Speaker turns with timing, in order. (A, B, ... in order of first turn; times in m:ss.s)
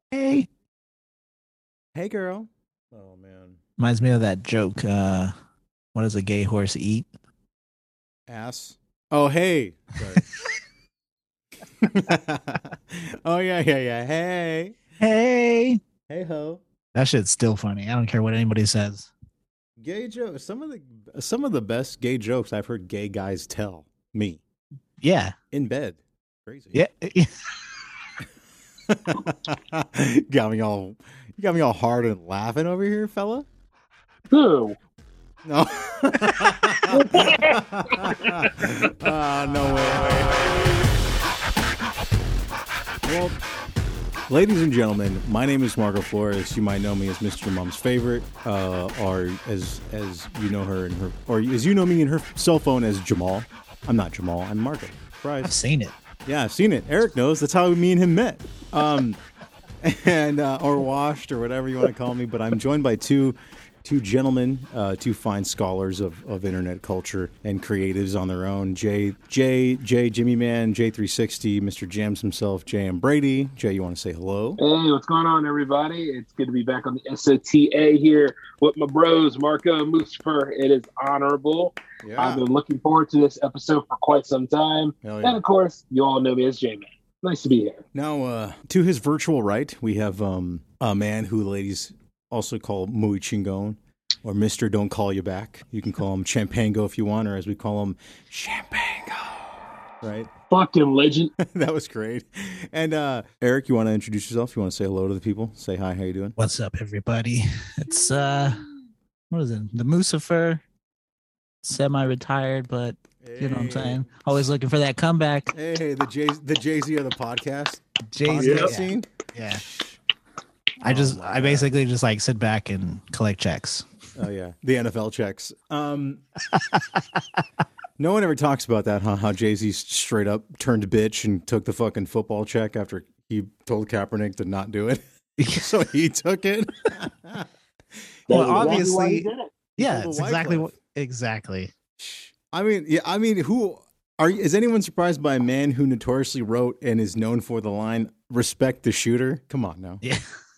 0:00.1-0:00.5 A
0:01.9-0:03.6 B
0:03.8-0:05.3 A
0:05.9-0:07.1 A
0:08.3-0:10.2 B
0:11.8-0:14.8 B
0:15.0-0:15.8 A
0:16.1-0:16.6 B
0:16.9-0:19.1 A
0:19.8-0:24.4 B
0:25.0-0:25.3 A
0:25.5-0:26.8 B
0:26.7-0:27.3 A
0:28.8-0:33.4 B
0:34.3-0:34.8 C
0:35.4-0:40.5 B
0:36.9-0:38.5 C
0:43.0-0:43.4 B
0:44.3-0:55.5 B
0:55.4-0:56.0 A
0:56.2-0:59.2 B
0:59.8-1:14.6 B
1:14.6-1:27.8 C
1:22.0-1:22.4 B
1:25.0-1:25.4 B
1:27.9-1:40.3 B
1:40.5-1:41.3 C
1:41.4-1:46.3 B
1:46.4-1:48.6 A
1:47.8-1:48.9 B
1:49.3-1:50.6 A
1:51.6-1:55.5 A
1:53.2-1:54.2 B
1:55.5-1:59.1 B
1:58.1-1:59.6 A
1:58.4-1:58.7 C
1:59.6-2:00.0 B
2:00.8-2:03.9 A
2:00.8-2:01.7 B
2:04.2-2:06.2 B
2:06.5-2:06.8 A
2:08.0-2:17.5 B
2:15.4-2:15.7 A
2:18.3-2:19.2 B
2:18.3-2:19.5 C
2:18.3-2:21.7 A
2:19.8-2:20.7 B
2:22.0-2:30.0 B